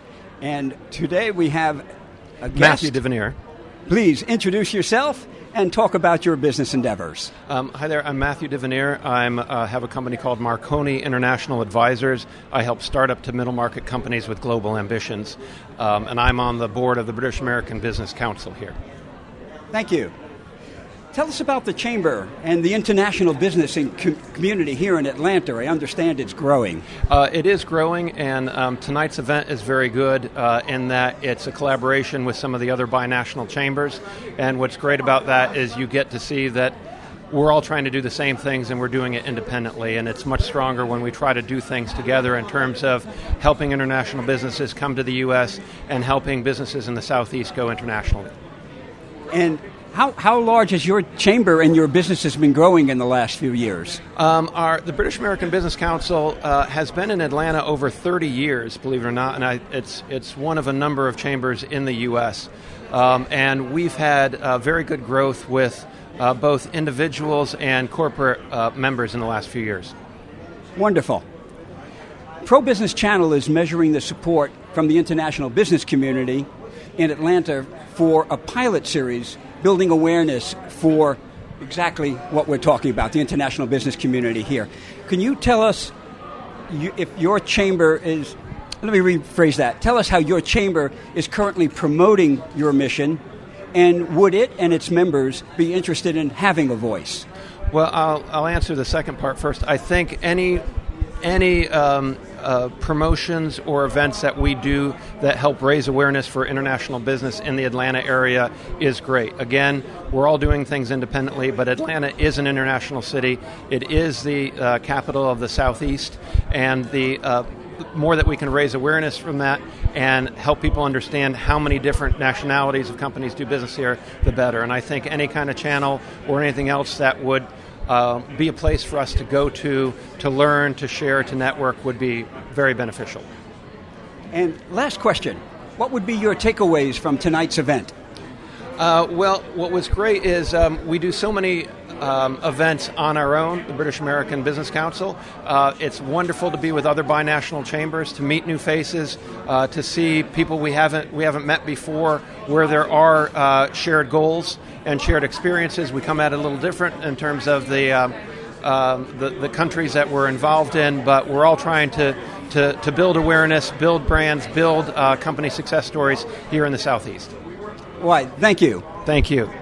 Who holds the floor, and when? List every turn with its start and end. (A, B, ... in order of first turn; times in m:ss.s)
0:00.4-0:01.8 A
0:02.4-0:03.0 A
0:02.5-0:03.4 B
0:03.9-0:07.3 A
0:07.5-0:18.8 B
0:19.7-0:20.1 A
0:21.1-0:26.9 A
0:27.1-0:36.8 B
0:37.3-0:48.3 B
0:49.3-0:54.0 A
0:54.2-1:09.9 B
1:10.8-1:11.2 A
1:12.4-1:25.9 A
1:26.7-1:33.2 A
1:33.7-1:37.2 A
1:37.7-1:40.6 B
1:41.2-2:13.2 B
2:14.3-2:17.9 A
2:18.8-2:47.3 B
2:48.0-2:48.9 A
2:49.0-2:49.5 B